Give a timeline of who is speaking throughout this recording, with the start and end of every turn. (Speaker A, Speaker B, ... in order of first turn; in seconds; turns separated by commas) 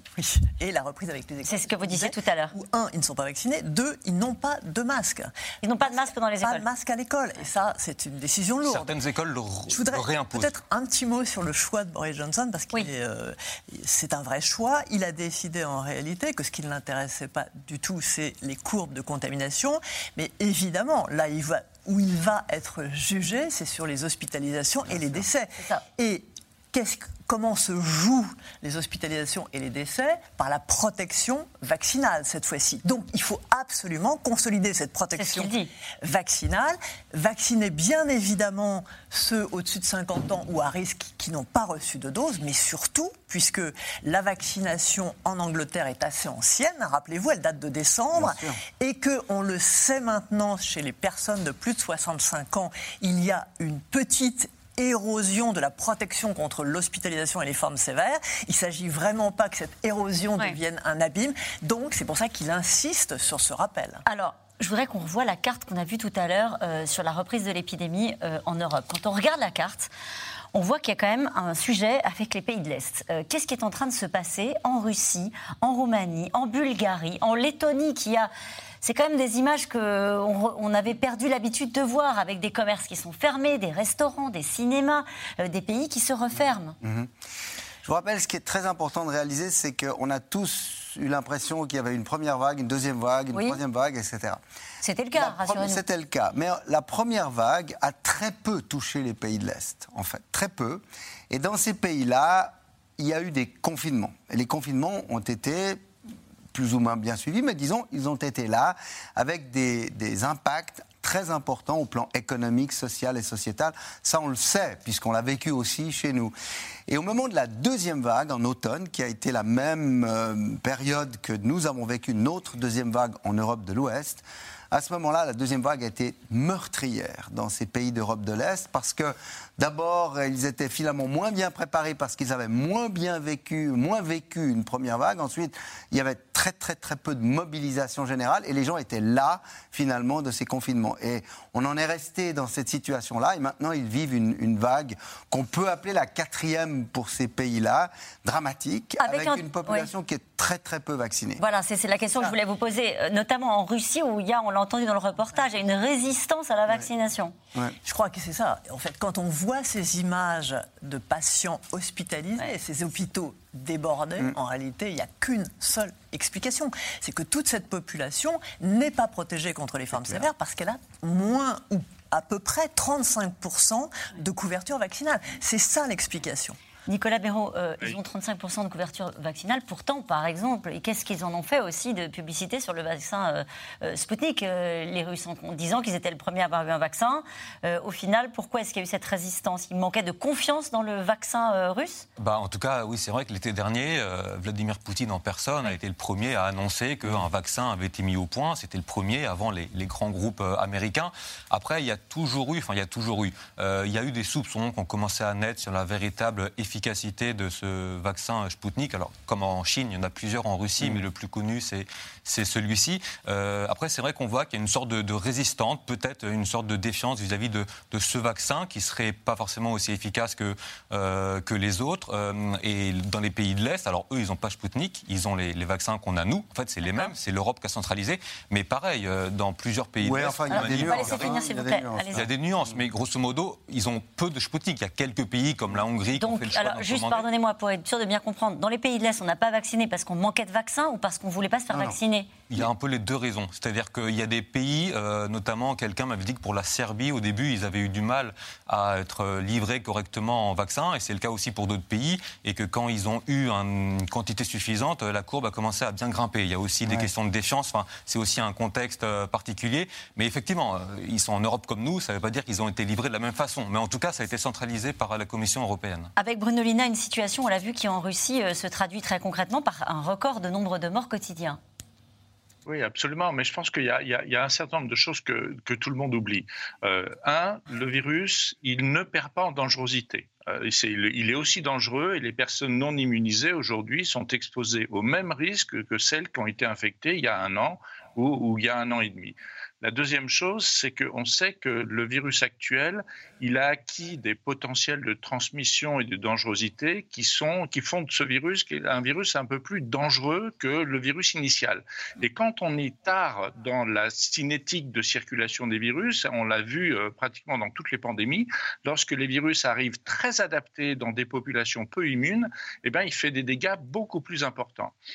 Speaker A: 0.1-8.9, Speaker B: 1.4-2.5, Speaker B: 5.6-6.6, Speaker C: 8.6-10.5, Speaker A: 9.7-64.0, Speaker D: 24.9-25.2, Speaker B: 35.1-35.7, Speaker D: 48.1-48.6, Speaker B: 64.0-69.9, Speaker B: 70.5-78.3, Speaker B: 78.8-86.8, Speaker D: 86.8-87.1, Speaker D: 87.8-94.4, Speaker B: 94.8-95.8, Speaker D: 95.1-105.8, Speaker D: 106.5-116.3, Speaker D: 116.9-151.4, Speaker B: 149.0-149.9, Speaker B: 151.4-157.3, Speaker A: 157.8-176.6, Speaker D: 169.9-170.2, Speaker B: 176.9-192.1, Speaker C: 192.2-231.4, Speaker B: 226.8-227.1, Speaker D: 230.0-232.8, Speaker B: 230.5-232.2, Speaker C: 232.1-237.3, Speaker B: 236.2-242.3, Speaker D: 241.7-242.0, Speaker C: 242.5-266.1, Speaker D: 256.9-257.1, Speaker B: 266.2-271.6, Speaker E: 272.6-314.9